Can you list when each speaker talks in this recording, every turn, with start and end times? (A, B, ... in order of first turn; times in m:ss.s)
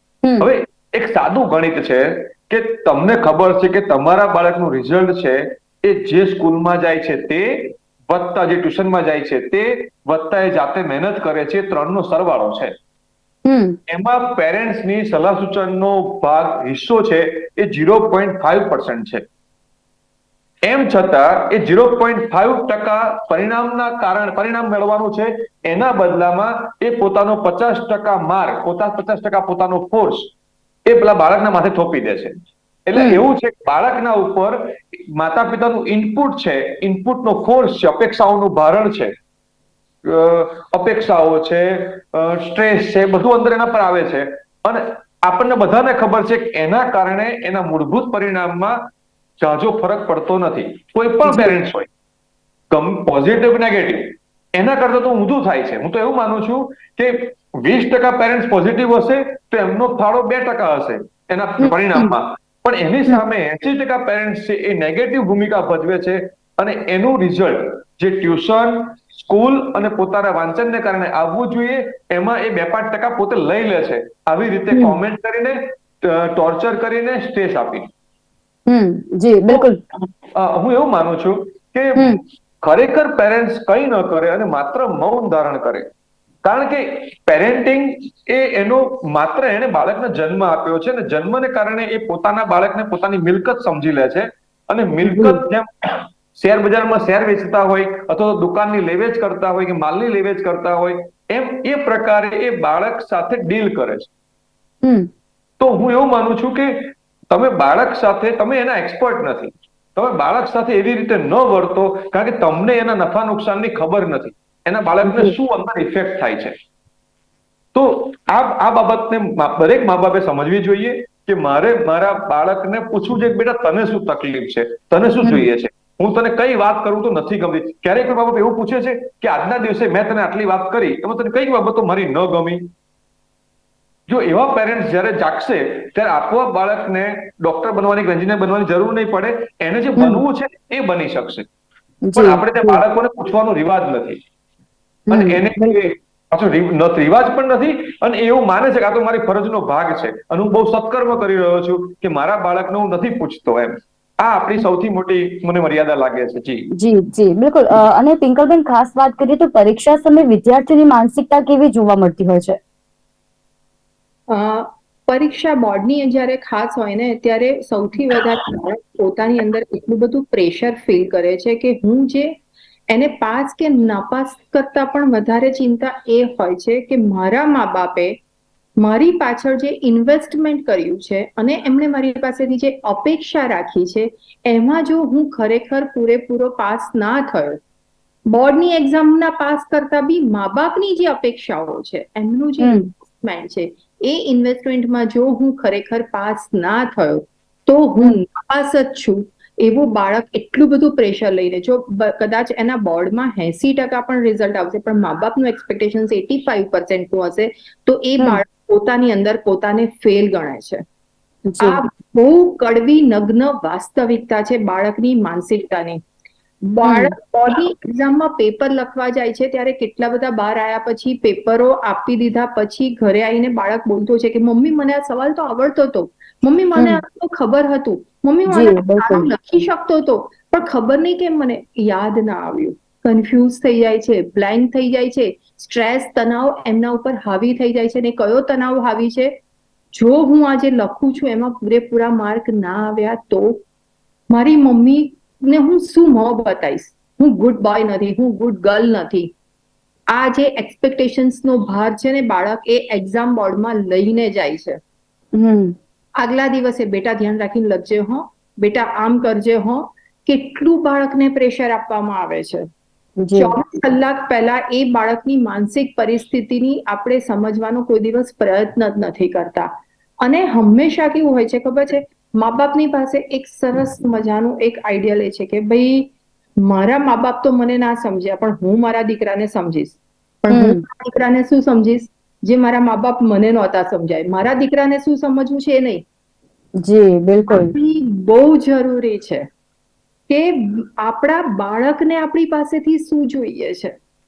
0:00.2-0:00.5 A
0:00.4-0:12.7 B
0:13.4-0:13.8 A
0:13.9-0:19.2 B
0:20.6-0:30.3 B
0:30.8-0:32.4 B
0:32.9-0:39.1 B
0:33.0-0:33.2 A
0:40.0-0:48.8 B
0:49.4-0:51.9 B
0:51.2-0:51.5 A
0:52.7-1:17.9 B
1:01.6-1:02.1 A
1:18.7-1:19.8 A
1:20.3-1:25.9 B
1:26.4-1:44.1 B
1:35.0-1:35.4 A
1:45.6-1:56.5 B
1:55.0-1:55.3 A
1:57.7-2:12.7 B
2:14.1-2:21.5 B
2:22.0-2:22.8 A
2:22.2-2:24.2 B
2:25.1-2:25.7 A
2:25.1-2:36.7 B
2:36.8-2:42.6 A
2:44.3-2:52.4 C
2:52.9-2:58.2 C
2:58.8-3:07.6 C
3:08.3-3:30.8 C
3:12.6-3:12.8 A
3:31.5-3:31.8 A
3:31.6-3:36.0 C
3:36.7-3:59.3 C
3:36.8-3:37.1 A
3:46.8-3:47.0 A
3:48.5-3:49.3 A
3:59.9-4:03.6 C
4:04.3-4:09.3 C
4:10.1-4:14.8 C
4:15.4-4:15.7 A
4:16.2-4:22.6 C
4:23.2-4:23.5 A
4:23.4-4:29.7 C
4:30.2-4:36.1 C
4:36.6-4:46.0 C
4:40.5-4:40.8 A
4:46.8-4:47.7 A
4:47.5-4:49.4 C
4:50.3-4:53.9 C